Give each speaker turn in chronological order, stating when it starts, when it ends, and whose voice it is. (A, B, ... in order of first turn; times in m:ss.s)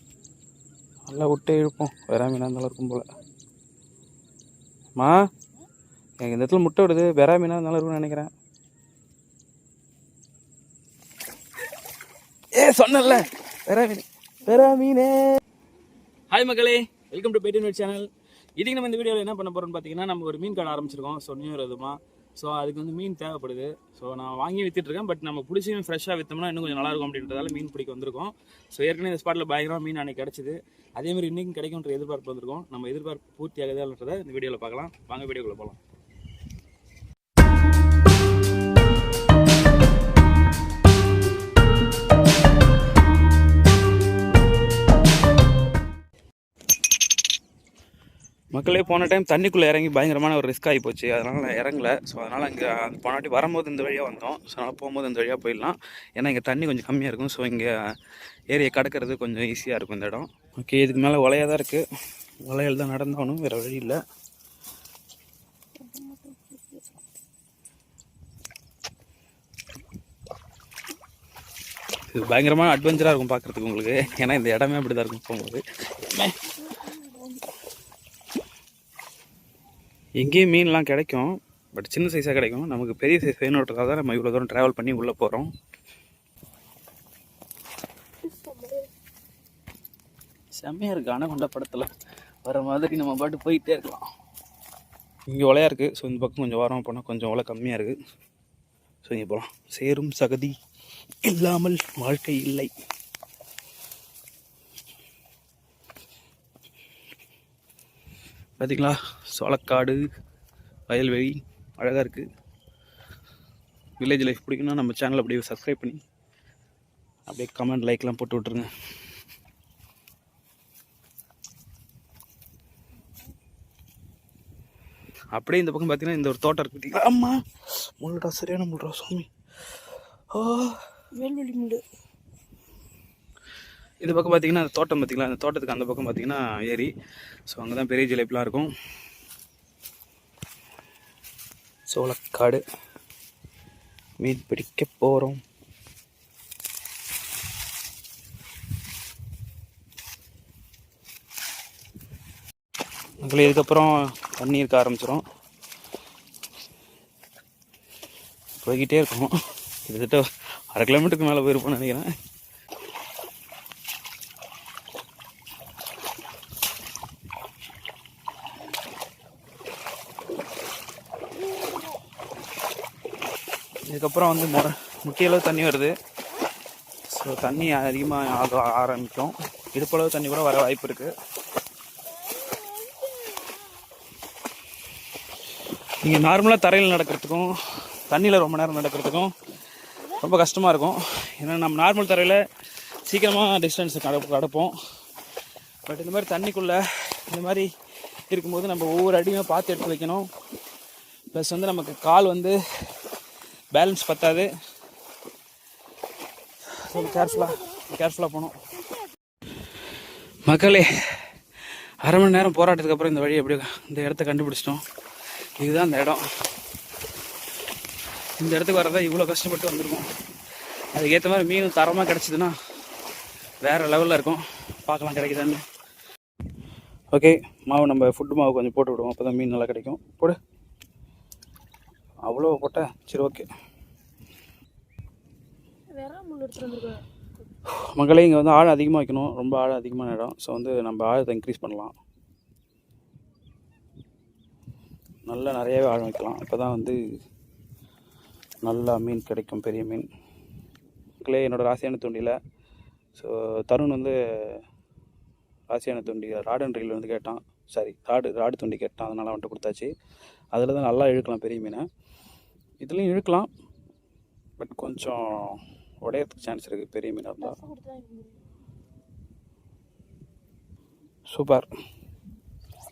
0:01.0-0:03.0 A
0:06.2-0:08.3 A
0:12.6-0:15.3 A
0:16.3-0:35.8 A
0:48.5-0:57.7 A
0:58.5-1:01.9 A
1:02.4-1:04.0 A
1:05.8-1:06.9 B
1:12.1-1:16.3 A
1:16.6-1:17.4 B
1:20.2-1:25.5 A
1:28.2-1:28.9 B
1:30.6-1:31.9 A
1:32.4-1:34.0 A
1:35.3-1:38.0 A
1:39.0-1:40.6 A
1:41.2-1:42.7 A
1:48.6-1:50.0 A
1:50.9-1:52.3 A
1:54.0-1:56.0 A
1:57.3-1:58.7 A
2:05.3-2:09.3 A
2:10.3-2:10.8 A
2:11.2-2:11.8 B
2:14.0-2:16.9 A
2:17.5-2:18.7 A
2:21.9-2:22.6 A
2:24.2-2:25.4 A
2:33.2-2:35.2 A
2:38.6-2:39.3 A
2:39.8-2:42.1 A
2:53.8-2:56.0 A
2:57.1-3:01.1 A
3:02.1-3:03.8 B
3:06.0-3:07.5 A
3:08.1-3:09.3 A
3:10.1-3:12.4 A
3:13.0-3:14.8 A
3:15.9-3:17.7 A
3:18.3-3:20.3 A
3:21.3-3:22.6 A
3:23.7-3:24.5 A
3:26.7-3:28.6 A
3:27.0-3:27.2 B
3:30.4-3:31.2 A
3:32.0-3:34.8 A
3:35.6-3:36.2 A
3:38.4-3:40.1 A
3:40.9-3:42.6 A
3:43.6-3:45.6 A
3:47.1-3:50.4 A
3:52.2-3:53.5 A
3:55.9-3:57.0 B
3:57.8-4:02.0 A
4:05.3-4:07.0 A
4:08.6-4:10.1 A
4:11.2-4:12.4 A
4:13.2-4:14.6 A
4:15.7-4:19.9 A
4:20.5-4:21.8 A
4:22.8-4:23.5 A
4:24.6-4:27.6 A
4:27.4-4:28.4 B
4:31.3-4:31.7 A